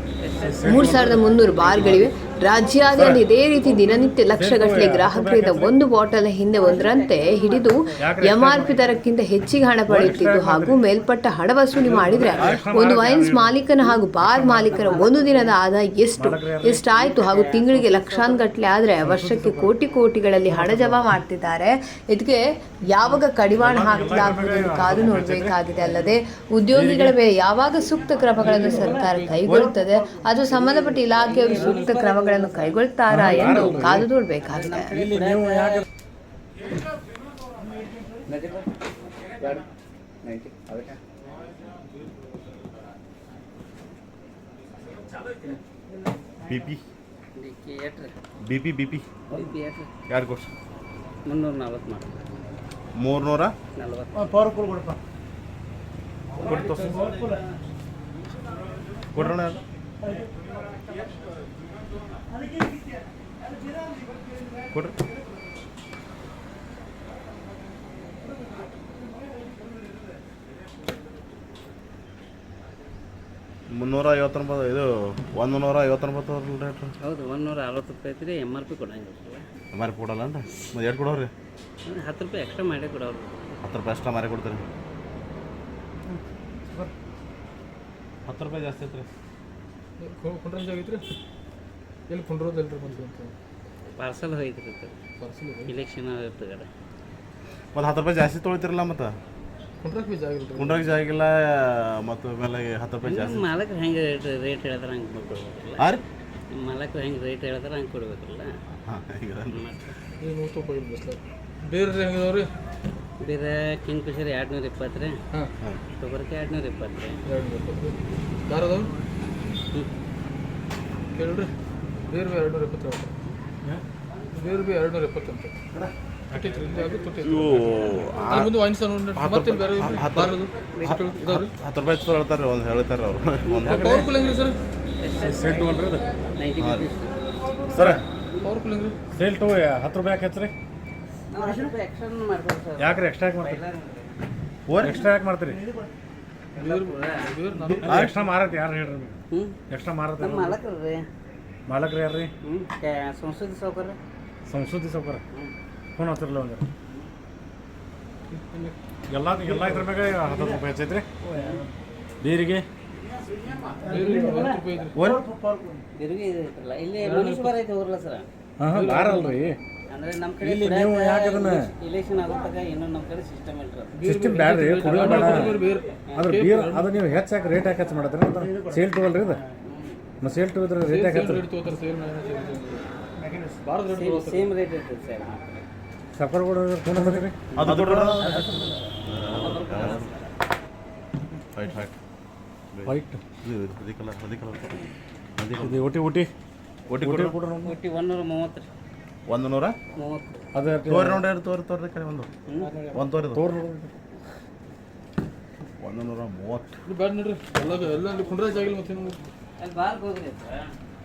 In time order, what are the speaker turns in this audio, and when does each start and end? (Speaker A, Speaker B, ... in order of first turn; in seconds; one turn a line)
Speaker A: 0.2-2.0
Speaker B: 0.4-2.0
Speaker C: 0.6-34.9
Speaker B: 2.9-3.3
Speaker B: 4.3-5.7
Speaker A: 6.5-8.0
Speaker B: 8.0-8.9
Speaker B: 9.9-10.8
Speaker B: 11.8-13.6
Speaker D: 12.3-12.7
Speaker B: 14.2-14.9
Speaker A: 14.7-15.6
Speaker B: 16.1-16.9
Speaker A: 16.9-18.4
Speaker B: 19.0-19.7
Speaker B: 20.5-21.1
Speaker B: 23.6-25.6
Speaker B: 26.7-27.2
Speaker E: 28.4-29.4
Speaker D: 29.4-29.8
Speaker A: 31.1-32.8
Speaker E: 31.5-31.9
Speaker B: 33.1-34.1
Speaker A: 34.4-35.8
Speaker B: 35.0-35.8
Speaker A: 38.2-38.7
Speaker A: 40.2-41.0
Speaker D: 46.5-46.8
Speaker A: 47.4-48.1
Speaker D: 48.4-49.1
Speaker A: 49.3-49.9
Speaker D: 50.1-50.5
Speaker A: 51.2-52.4
Speaker D: 52.9-53.5
Speaker A: 53.8-54.5
Speaker D: 56.4-57.1
Speaker A: 56.4-57.4
Speaker D: 59.1-59.6
Speaker D: 73.7-76.9
Speaker A: 77.0-79.5
Speaker D: 79.7-81.3
Speaker A: 81.8-83.6
Speaker D: 83.6-84.6
Speaker D: 88.3-89.1
Speaker E: 90.0-91.1
Speaker E: 92.1-93.3
Speaker A: 94.0-95.0
Speaker E: 95.2-95.7
Speaker A: 95.7-96.7
Speaker D: 97.7-99.2
Speaker E: 99.8-100.8
Speaker D: 100.5-103.5
Speaker A: 103.0-105.9
Speaker A: 106.5-108.5
Speaker D: 108.8-109.6
Speaker A: 109.5-110.0
Speaker E: 110.2-112.5
Speaker A: 113.2-115.2
Speaker A: 115.9-117.2
Speaker E: 117.2-118.9
Speaker E: 121.2-121.5
Speaker E: 122.1-123.1
Speaker E: 124.3-125.5
Speaker E: 126.3-131.5
Speaker D: 127.2-128.6
Speaker D: 129.1-133.9
Speaker E: 133.6-134.6
Speaker B: 133.6-134.1
Speaker A: 135.0-135.8
Speaker B: 135.2-136.0
Speaker A: 136.3-137.1
Speaker D: 136.6-136.8
Speaker D: 137.7-138.0
Speaker E: 138.4-138.9
Speaker B: 139.1-140.5
Speaker A: 141.3-144.2
Speaker B: 142.8-143.6
Speaker D: 144.7-145.0
Speaker B: 144.8-145.6
Speaker A: 146.6-147.3
Speaker E: 146.6-148.1
Speaker D: 147.8-148.1
Speaker B: 147.8-149.2
Speaker A: 149.3-149.6
Speaker B: 149.7-150.6
Speaker A: 150.2-151.1
Speaker B: 151.7-152.3
Speaker A: 152.4-154.0
Speaker B: 154.5-155.2
Speaker B: 156.0-156.7
Speaker E: 158.3-158.7
Speaker B: 159.1-161.1
Speaker A: 161.3-161.7
Speaker B: 162.2-162.7
Speaker E: 163.8-164.9
Speaker A: 163.9-164.6
Speaker D: 164.9-165.3
Speaker A: 165.9-168.3
Speaker E: 167.0-167.5
Speaker B: 168.6-169.6
Speaker E: 168.7-169.4
Speaker A: 169.9-173.9
Speaker B: 170.4-171.7
Speaker E: 173.9-176.9
Speaker B: 174.0-175.6
Speaker B: 176.1-179.4
Speaker A: 179.6-180.0
Speaker B: 180.2-181.4
Speaker E: 180.8-182.8
Speaker E: 183.6-184.5
Speaker A: 183.9-185.4
Speaker B: 186.1-187.4
Speaker A: 187.5-190.3
Speaker D: 187.6-188.3
Speaker D: 189.1-190.1
Speaker D: 191.5-191.9
Speaker D: 192.7-194.8
Speaker B: 192.8-193.2
Speaker D: 195.4-195.8
Speaker B: 195.6-196.3
Speaker D: 196.9-197.3
Speaker B: 197.0-197.8
Speaker A: 197.6-198.7
Speaker D: 199.3-199.8
Speaker A: 199.9-200.4
Speaker B: 200.5-201.2
Speaker D: 200.9-202.3
Speaker A: 202.5-202.7
Speaker E: 202.6-203.0
Speaker D: 202.9-203.4
Speaker B: 203.3-203.9
Speaker D: 205.8-206.7
Speaker E: 206.8-209.2
Speaker A: 209.6-210.7